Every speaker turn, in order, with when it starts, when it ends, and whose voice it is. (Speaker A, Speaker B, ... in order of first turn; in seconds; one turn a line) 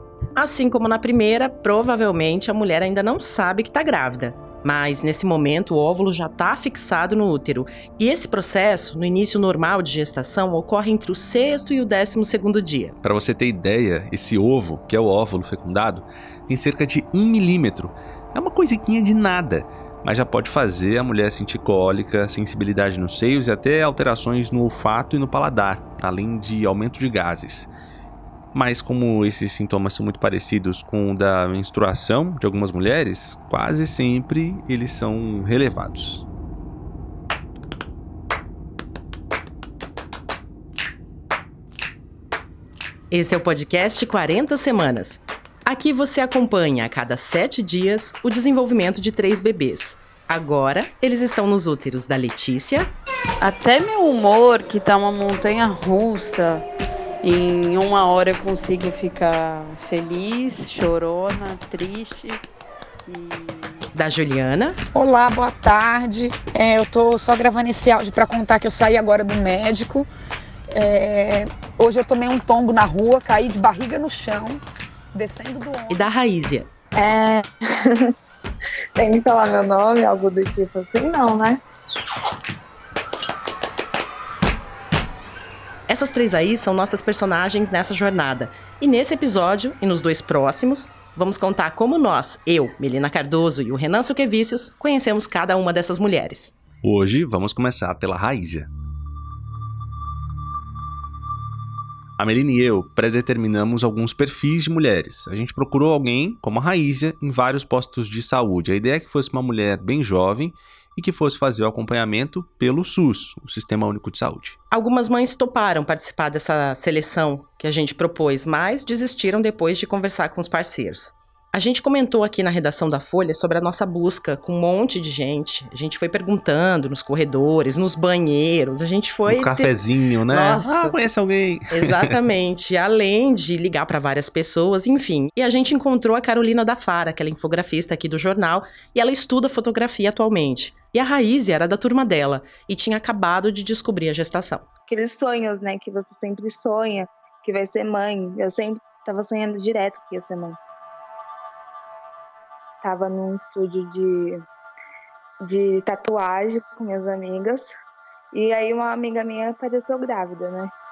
Speaker A: 0.3-12.9
Speaker B: 13.0-27.7
Speaker B: 28.5-36.2
Speaker A: 43.1-52.9
Speaker C: 53.4-56.6
Speaker C: 57.2-62.4
Speaker C: 63.1-63.5
Speaker A: 63.9-64.8
Speaker D: 64.9-70.1
Speaker D: 70.7-74.6
Speaker D: 75.1-76.1
Speaker A: 75.9-76.7
Speaker E: 77.0-78.0
Speaker E: 79.0-81.6
Speaker A: 85.9-96.5
Speaker B: 96.8-98.7
Speaker B: 102.2-114.5
Speaker A: 114.7-129.7
Speaker B: 129.2-132.2
Speaker A: 130.3-131.0
Speaker A: 131.7-144.6
Speaker E: 144.9-150.6
Speaker E: 152.8-154.4
Speaker E: 155.4-157.7
Speaker E: 158.3-160.7